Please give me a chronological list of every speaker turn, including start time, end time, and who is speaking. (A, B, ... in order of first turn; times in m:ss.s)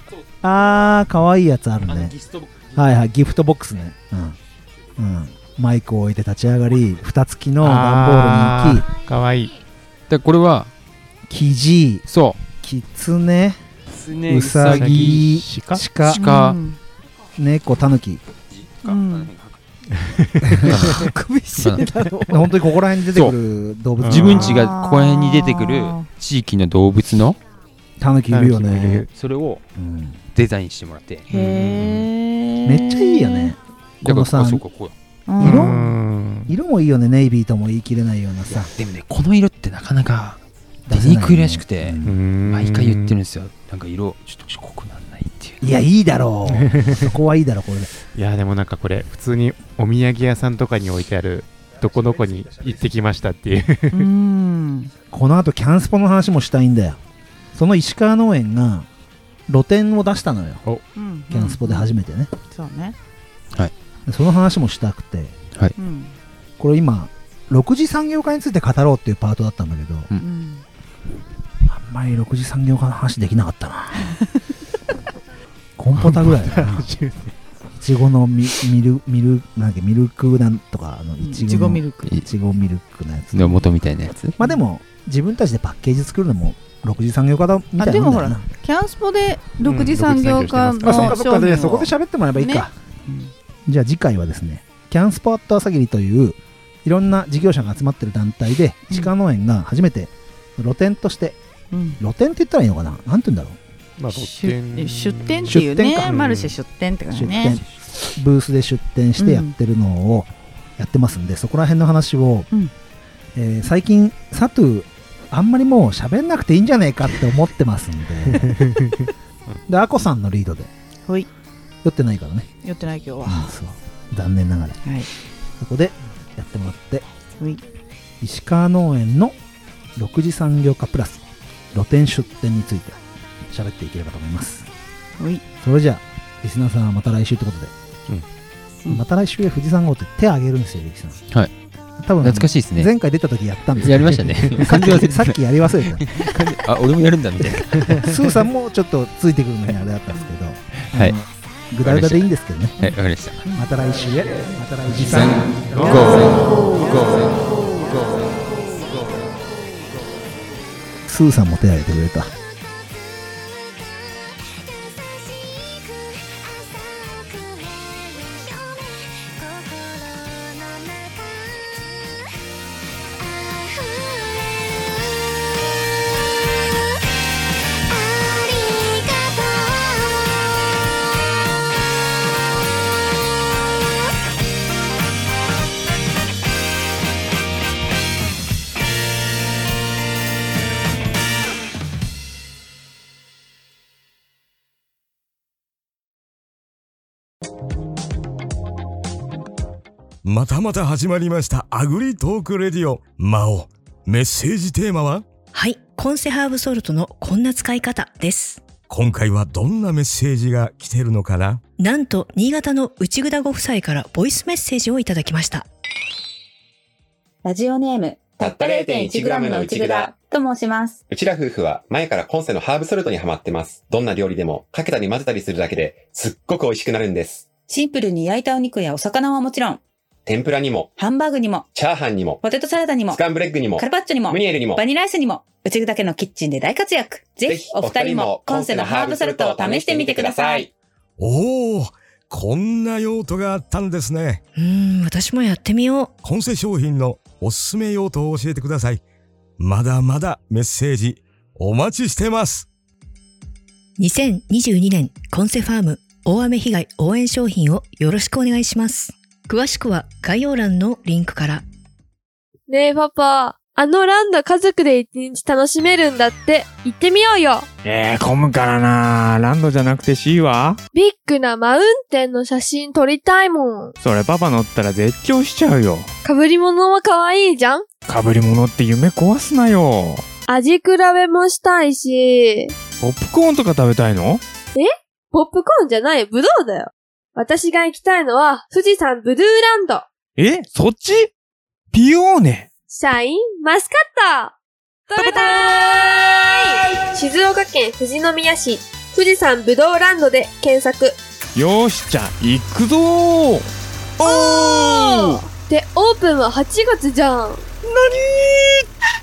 0:00.4-0:02.2 A
0:01.9-0:02.7 B
0:02.8-0:04.4 A
0:05.0-0:08.9 A
0:07.6-0:09.6 C
0:10.1-0:10.7 B
0:11.3-0:13.6 A
0:12.1-0:12.4 B
0:13.9-0:15.2 B
0:14.3-0:16.2 A
0:14.7-0:15.8 C
0:16.1-0:16.6 B
0:16.1-0:16.8 D
0:17.4-0:18.2 A
0:18.5-0:19.6 B
0:18.8-0:19.3 D
0:20.0-0:21.1 C
0:20.4-0:20.7 A
0:20.7-0:21.8 B
0:20.8-0:22.4 D
0:22.3-0:24.6 A
0:24.0-0:24.6 C
0:24.0-0:27.4 B
0:24.4-0:26.1 D
0:28.0-0:29.1 A
0:28.3-0:29.1 C
0:29.1-0:29.6 B
0:29.8-0:30.2 A
0:30.3-0:31.3 B
0:31.3-0:33.6 D
0:31.3-0:32.1 C
0:32.7-0:34.6 A
0:34.0-0:34.9 B
0:35.3-0:36.0 D
0:35.4-0:35.8 A
0:35.4-0:36.5 C
0:36.5-0:38.7 A
0:38.5-0:45.6 B
0:40.9-0:42.2 A
0:42.0-0:43.1 C
0:45.6-0:47.9 A
0:46.5-0:47.1 C
0:48.2-0:54.1 C
0:53.9-0:54.9 D
0:55.1-0:57.0 A
0:57.5-0:58.9 A
0:59.5-1:00.6 A
1:01.0-1:01.9 D
1:01.3-1:02.3 A
1:02.5-1:03.0 D
1:04.1-1:05.4 A
1:05.8-1:06.2 D
1:06.6-1:10.1 A
1:10.2-1:10.6 D
1:11.6-1:14.2 A
1:15.8-1:16.9 A
1:16.0-1:17.4 C
1:17.8-1:23.6 A
1:21.2-1:22.1 D
1:23.3-1:24.4 B
1:24.4-1:28.4 A
1:27.8-1:33.3 D
1:29.6-1:31.2 C
1:30.8-1:32.7 A
1:33.7-1:41.4 A
1:41.7-1:42.0 D
1:42.0-1:43.6 A
1:44.0-1:46.6 C
1:44.1-1:47.6 D
1:45.5-1:46.2 A
1:47.1-1:52.5 A
1:49.2-1:49.5 D
1:53.4-1:58.6 A
1:58.4-1:58.9 C
1:59.7-2:00.7 A
2:01.8-2:02.5 A
2:02.6-2:03.5 D
2:03.2-2:04.8 A
2:04.8-2:05.1 D
2:05.6-2:07.1 A
2:08.2-2:09.4 A
2:10.0-2:13.0 A
2:13.5-2:14.7 A
2:15.2-2:15.4 D
2:15.6-2:17.7 A
2:18.9-2:21.2 A
2:22.0-2:26.1 A
2:22.2-2:22.9 B
2:23.8-2:28.1 B
2:28.0-2:32.9 A
2:30.8-2:31.2 B
2:31.8-2:32.3 B
2:32.8-2:33.4 B
2:33.4-2:33.8 D
2:33.5-2:36.4 A
2:34.9-2:38.3 B
2:35.7-2:36.6 C
2:41.1-2:42.3 A
3:20.2-3:25.2 E
3:25.5-3:28.6 F
3:28.9-3:31.6 E
3:31.8-3:35.6 F
3:37.4-3:41.0 G
3:38.4-3:40.2 H
3:41.1-3:47.5 H
3:47.7-3:49.8 G
3:50.3-3:51.0 H
3:51.0-3:51.7 G
3:51.7-3:52.4 H
3:52.4-3:53.2 G
3:53.1-3:54.8 H
3:53.8-4:00.7 G
3:57.4-4:00.7 H
4:01.2-4:04.4 E
4:04.6-4:06.1 F
4:06.2-4:09.0 E
4:09.6-4:12.7 E
4:14.0-4:21.6 F
4:22.7-4:27.7 I
4:27.8-4:30.8 J
4:30.9-4:34.0 I
4:34.0-4:36.1 J
4:36.2-4:37.9 I
4:38.1-4:40.2 J
4:40.5-4:42.8 I
4:43.0-4:44.4 J
4:44.8-4:50.1 I
4:50.4-4:51.3 J
4:51.9-4:52.7 J
4:52.9-4:54.6 I
4:55.1-5:01.2 I
4:55.2-4:55.6 J
5:01.6-5:03.7 J
5:04.2-5:07.6 I
5:04.2-5:05.4 J
5:07.9-5:08.8 J